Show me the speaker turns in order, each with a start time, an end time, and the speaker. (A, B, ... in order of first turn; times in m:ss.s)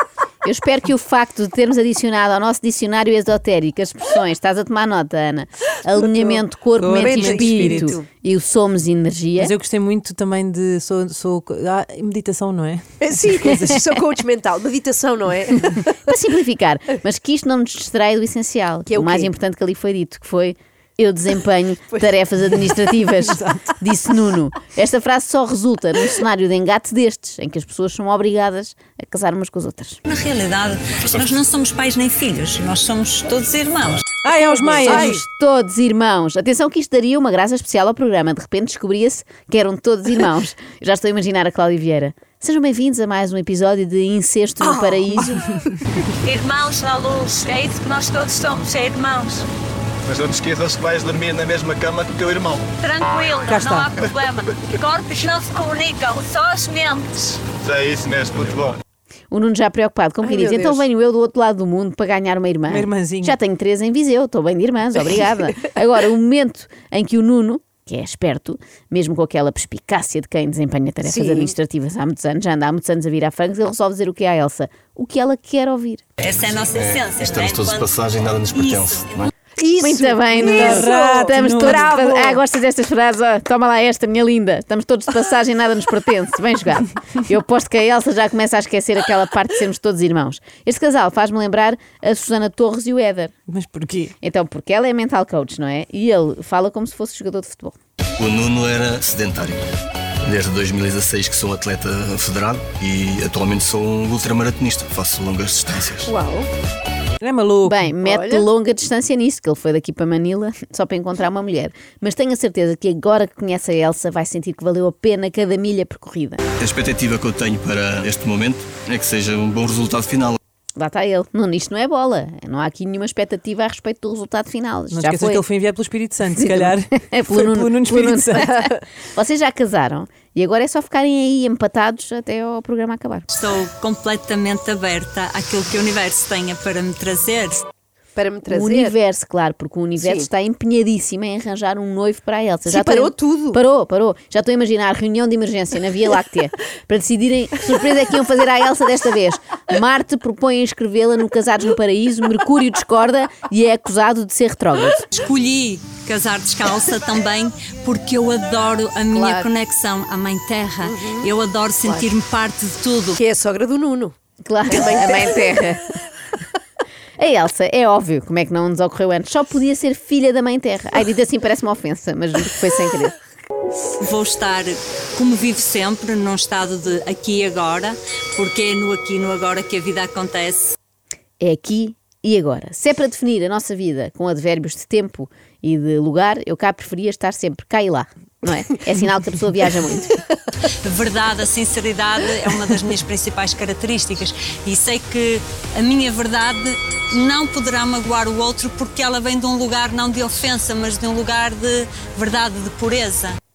0:00.4-0:09.5 A
0:06.8-0:08.0 B
0:07.0-0:08.1 C
0:09.4-0:13.9 B
0:13.0-0:16.0 C
0:16.0-0:30.0 A
0:18.9-0:19.3 C
0:30.0-0:34.0 D
0:34.2-0:35.2 B
0:34.6-0:35.2 C
0:34.7-0:45.4 A
0:46.3-0:49.4 E
0:50.1-0:52.6 F
0:52.8-0:57.4 E
0:53.5-0:54.0 B
0:57.6-0:58.8 F
0:59.3-1:16.0 A
1:00.2-1:00.9 C
1:02.7-1:03.4 B
1:11.0-1:11.5 C
1:16.2-1:17.9 D
1:16.7-1:19.3 F
1:18.6-1:19.3 D
1:19.6-1:22.2 C
1:19.8-1:33.3 A
1:20.4-1:22.4 B
1:33.5-1:34.1 B
1:34.2-1:37.8 A
1:38.2-1:39.7 F
1:40.2-1:46.1 F
1:46.0-1:46.5 C
1:47.2-1:47.9 B
1:47.6-1:56.4 A
1:48.0-1:48.4 C
1:56.6-2:00.4 F
2:00.8-2:05.4 A
2:04.9-2:08.8 B
2:06.3-2:13.3 A
2:13.3-2:17.6 D
2:18.2-2:19.0 C
2:18.5-2:35.1 A
2:20.0-2:20.3 C
2:22.7-2:23.6 C
2:35.1-2:43.2 D
2:39.1-2:39.5 C
2:40.8-2:41.3 C
2:41.8-2:42.1 C
2:43.2-2:44.2 C
2:44.4-2:45.9 A
2:44.7-2:45.6 C
2:47.2-2:53.2 A
2:54.0-3:00.8 D
3:01.4-3:10.2 A
3:10.7-3:23.4 D